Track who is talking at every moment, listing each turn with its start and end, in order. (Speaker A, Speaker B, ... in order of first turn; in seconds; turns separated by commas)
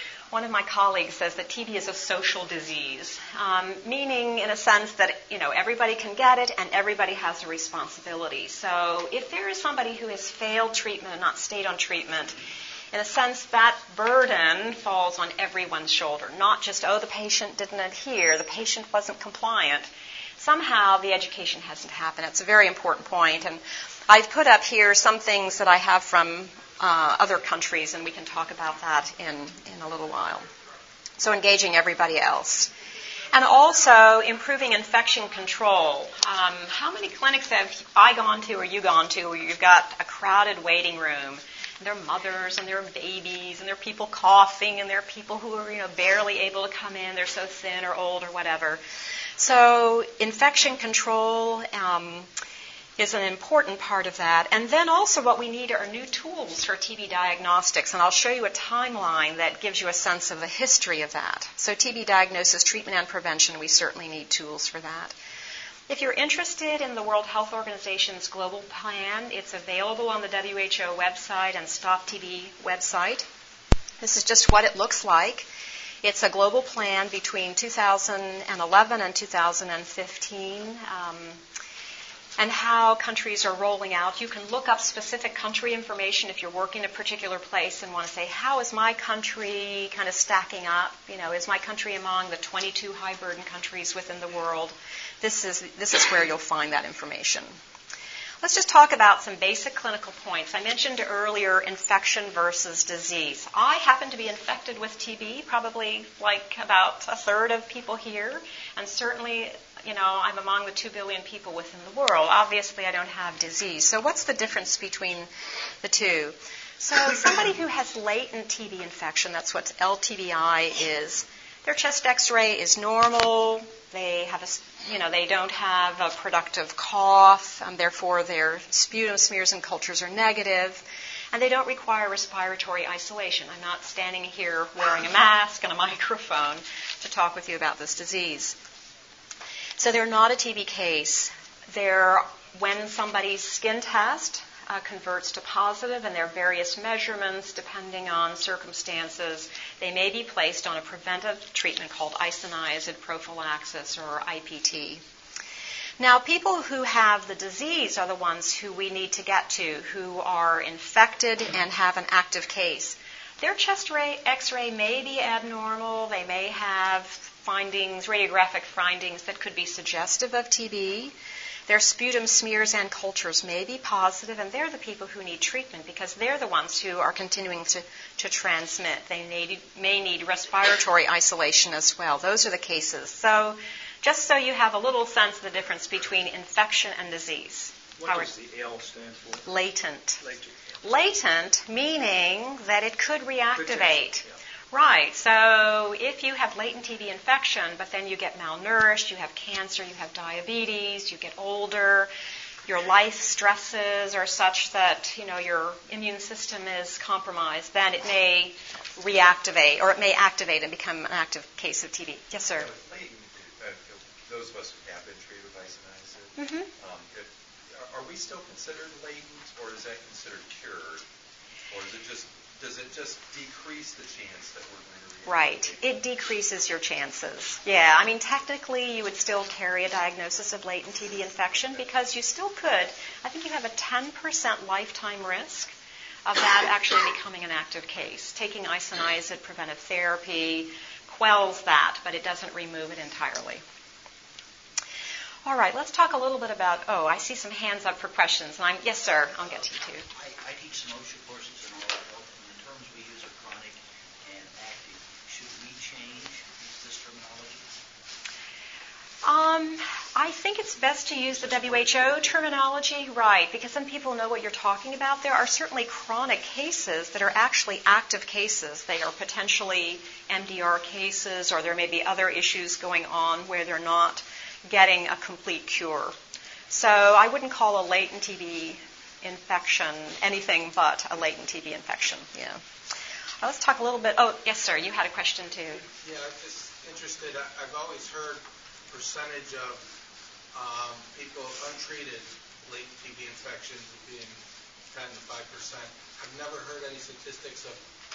Speaker A: 0.3-12.3, Speaker A: 12.9-19.9, Speaker A: 20.4-30.4, Speaker A: 31.2-32.7, Speaker A: 33.3-48.8, Speaker A: 49.4-52.3, Speaker A: 53.0-65.1, Speaker A: 65.9-73.3, Speaker A: 74.0-75.5, Speaker A: 76.0-81.4, Speaker A: 82.4-97.6, Speaker A: 98.4-115.3, Speaker A: 115.8-138.6, Speaker A: 139.8-155.0, Speaker A: 156.0-171.1, Speaker A: 171.7-188.3, Speaker B: 188.0-189.5, Speaker A: 189.5-190.2, Speaker B: 190.2-190.6, Speaker A: 190.8-202.1, Speaker B: 193.5-194.4, Speaker A: 202.7-212.7, Speaker C: 212.6-221.0, Speaker A: 216.4-216.7, Speaker C: 221.7-225.8, Speaker A: 225.3-235.7, Speaker A: 236.3-243.6, Speaker A: 245.5-250.0, Speaker D: 250.1-257.7, Speaker A: 259.2-276.1, Speaker B: 261.5-262.3, Speaker A: 276.7-282.6, Speaker A: 283.4-285.8, Speaker E: 286.0-289.8, Speaker E: 290.5-294.4, Speaker E: 294.9-297.8